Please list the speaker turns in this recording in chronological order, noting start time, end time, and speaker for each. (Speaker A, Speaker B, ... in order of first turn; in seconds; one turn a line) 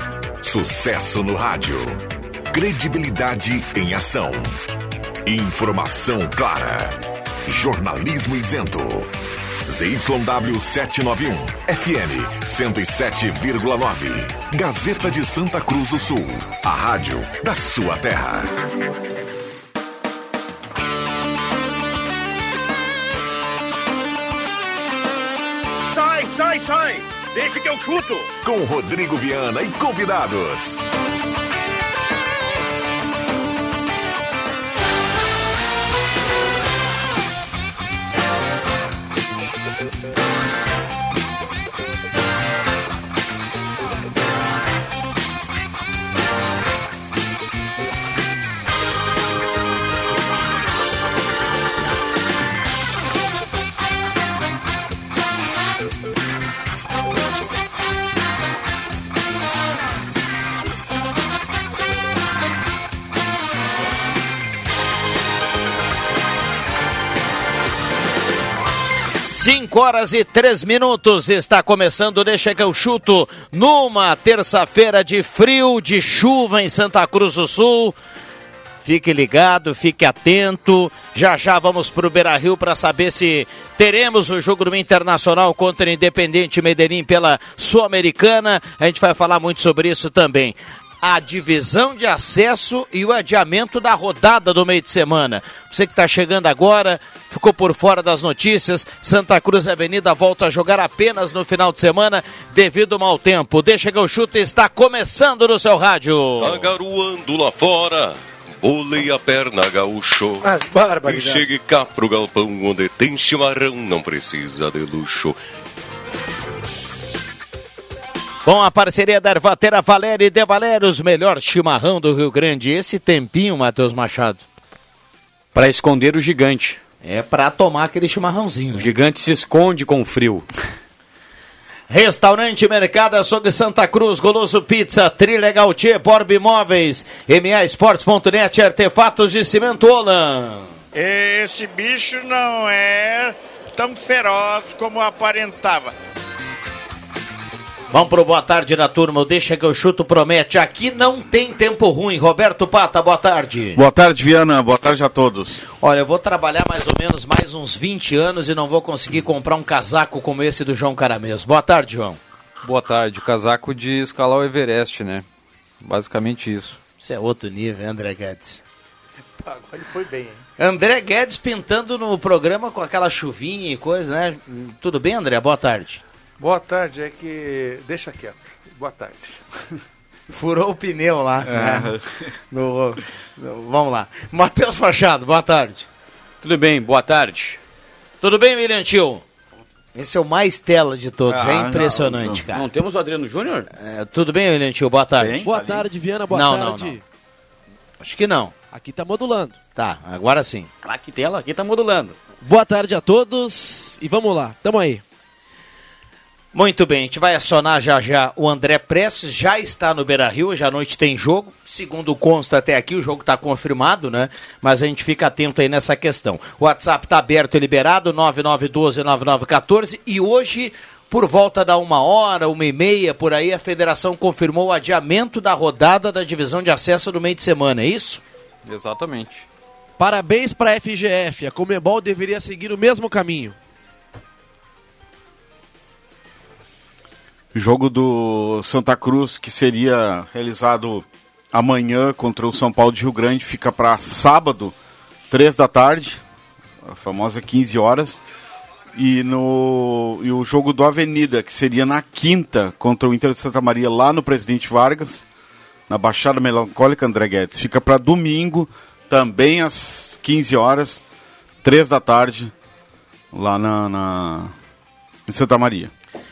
Speaker A: 0.4-4.6
Speaker A: 5.2-9.1
Speaker A: 9.7-18.5
Speaker B: 25.8-28.3
Speaker A: 28.4-30.8
Speaker C: 69.2-77.9
Speaker C: 78.8-106.7
Speaker D: 106.4-115.3
Speaker E: 110.4-111.4
Speaker C: 118.4-124.4
Speaker F: 125.5-126.8
Speaker C: 127.0-128.9
Speaker F: 128.7-130.4
Speaker C: 131.9-140.7
Speaker B: 140.9-145.9
Speaker C: 147.9-153.8
Speaker G: 153.8-155.6
Speaker C: 155.8-162.2
Speaker H: 162.6-165.2
Speaker H: 165.8-166.8
Speaker C: 167.0-168.6
Speaker E: 169.4-170.4
Speaker C: 170.6-176.0
Speaker E: 176.4-179.4
Speaker C: 180.3-181.9
Speaker G: 181.4-182.3
Speaker C: 182.5-185.9
Speaker F: 186.4-187.6
Speaker C: 188.2-189.2
Speaker C: 189.9-192.7
Speaker G: 191.3-192.4
Speaker F: 192.5-193.7
Speaker C: 193.8-195.5
Speaker G: 195.2-195.5
Speaker I: 195.4-197.0
Speaker F: 195.5-195.8
Speaker C: 196.3-197.0
Speaker C: 198.0-198.5
Speaker I: 198.7-199.6
Speaker C: 199.8-200.7
Speaker F: 200.8-202.1
Speaker I: 202.4-205.0
Speaker C: 206.5-228.2
Speaker H: 228.6-229.4
Speaker I: 230.0-233.5
Speaker G: 237.5-244.7
Speaker G: 245.3-246.2
Speaker G: 246.8-248.2
Speaker G: 248.9-255.2
Speaker G: 255.9-261.0
Speaker G: 261.6-262.5
Speaker G: 263.3-264.5
Speaker G: 265.3-265.9